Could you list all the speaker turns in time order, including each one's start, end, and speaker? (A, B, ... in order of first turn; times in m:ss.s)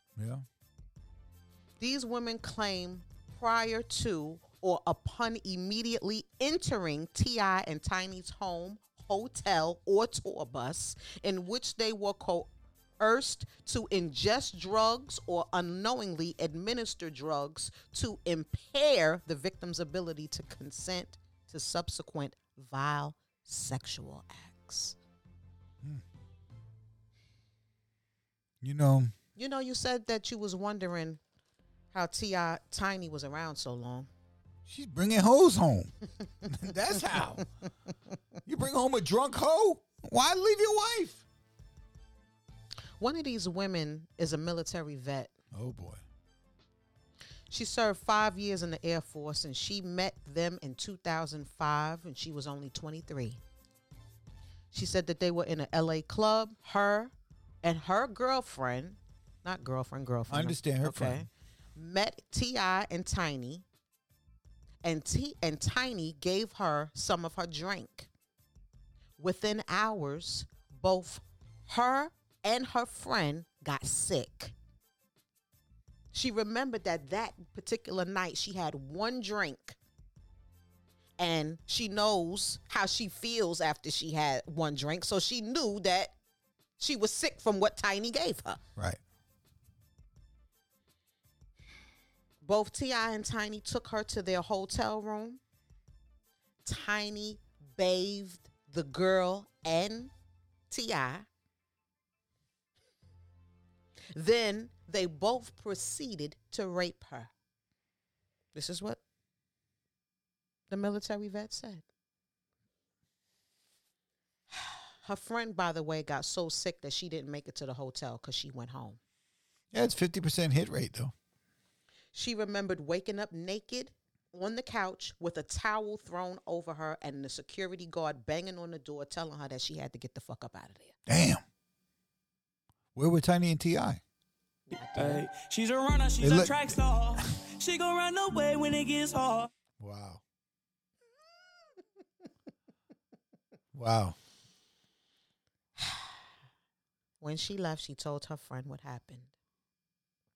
0:00.2-0:00.4 A
0:01.8-0:25.0 B
0:28.6-0:29.1 A
0:29.4-0:31.2 B
0:31.9-0:34.1 B
0:34.7-0:35.9 A
0:36.4-0:37.4 A
0:38.4-0:41.2 A
0:43.0-0:45.3 B
0:45.5-0:46.0 A
0:47.5-0:53.4 B
0:54.7-1:03.6 B
1:00.3-1:01.3 A
1:04.8-1:08.1 B
1:09.2-1:14.5 B
1:16.1-1:19.8 B
1:21.2-1:26.1 B
1:26.8-1:28.6 B
1:32.4-1:35.4 B
1:36.6-1:40.1 B
1:40.7-1:41.2 B
1:44.1-1:47.3 B
1:48.5-1:49.0 B
1:50.7-1:51.8 B
1:54.6-1:59.0 B
1:59.7-2:01.1 A
2:02.1-2:10.9 B
2:11.1-2:11.4 A
2:12.9-2:14.0 A
2:14.7-2:15.2 B
2:14.9-2:19.5 C
2:16.2-2:16.8 A
2:19.8-2:20.2 A
2:23.7-2:24.2 A
2:25.8-2:26.1 B
2:27.2-2:29.3 B